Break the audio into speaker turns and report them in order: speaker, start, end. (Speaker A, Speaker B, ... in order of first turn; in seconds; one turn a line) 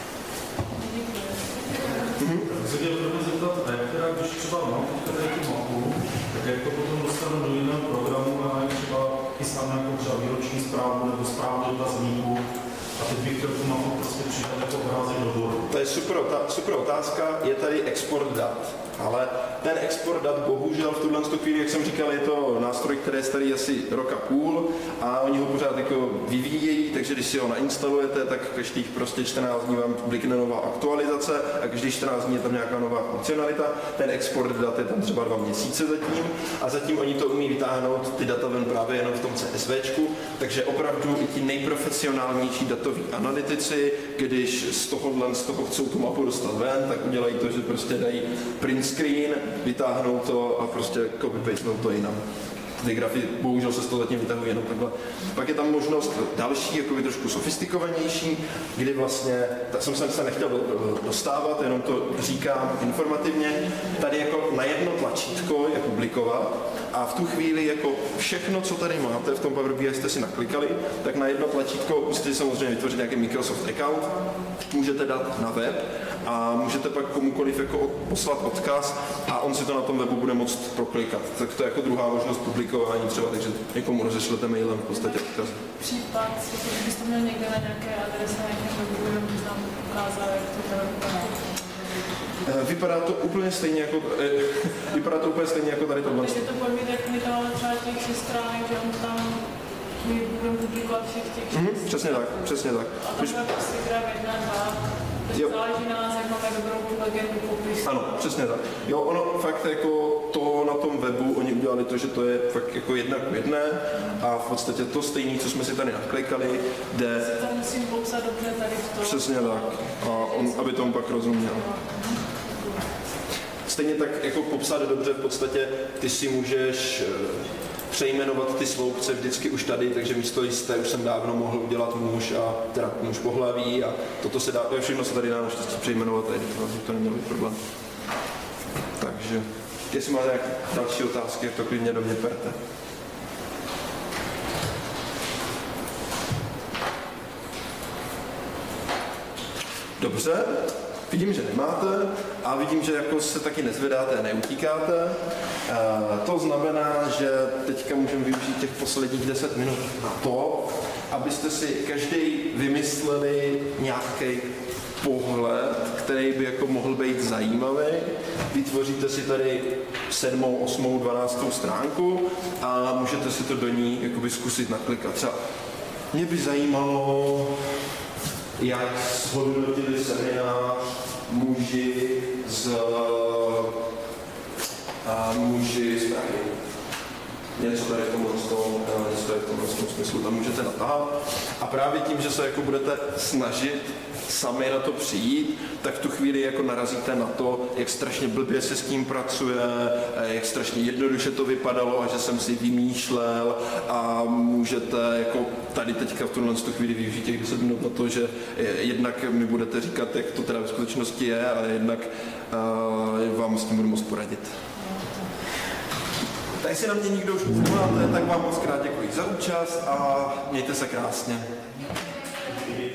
Speaker A: 0.7-2.0
Speaker B: 2.2-2.5
Speaker C: 2.5-12.4
Speaker C: 13.0-15.7
Speaker B: 15.7-52.2
Speaker B: 52.8-74.1
Speaker B: 74.7-85.6
Speaker A: 85.6-92.2
Speaker B: 92.4-96.4
Speaker A: 96.2-99.4
Speaker A: 100.0-107.9
Speaker B: 101.5-103.4
Speaker B: 107.8-117.3
Speaker A: 117.2-122.1
Speaker B: 119.0-121.7
Speaker B: 123.7-137.6
Speaker B: 139.0-142.6
Speaker B: 150.0-175.4
Speaker B: 176.1-177.6
Speaker B: 178.6-183.7
Speaker B: 185.0-186.5
Speaker B: 187.6-214.6
Speaker B: 216.6-221.5